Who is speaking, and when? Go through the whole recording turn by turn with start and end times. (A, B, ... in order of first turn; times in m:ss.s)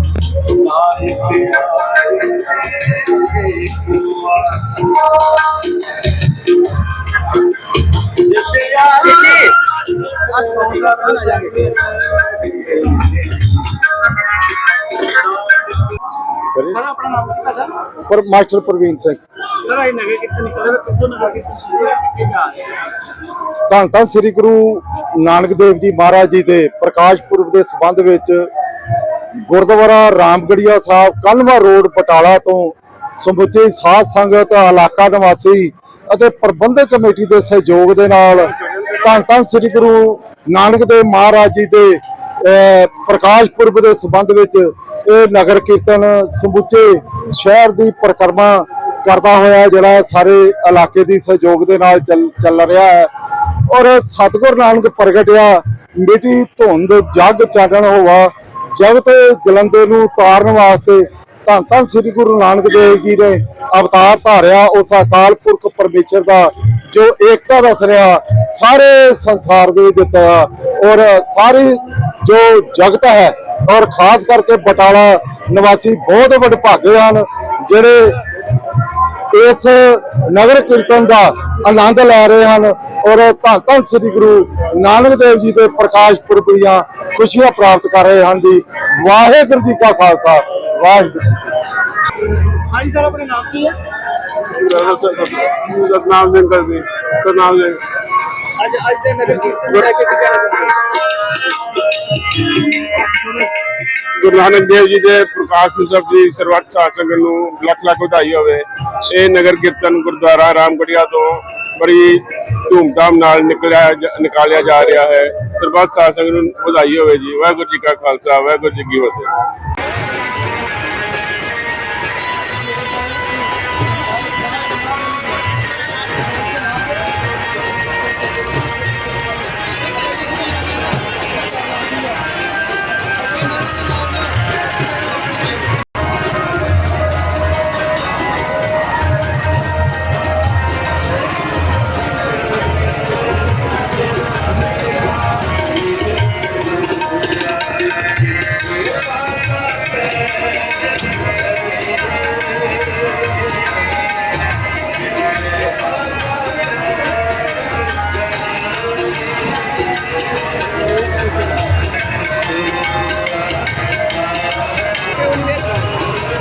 0:01.1-0:01.5 A
0:08.7-0:12.1 A
0:16.6-0:17.7 A
0:18.0-0:19.2 B
0:19.5-0:22.6 A
0:23.7-0:28.5 B
0:29.4-0:53.1 B
0:53.7-1:18.2 B
1:19.3-1:31.5 B
1:32.4-1:33.8 A
1:34.4-1:37.8 C
1:38.6-1:41.0 A
1:43.1-1:43.4 A
1:44.0-1:59.3 C
2:45.2-2:46.0 A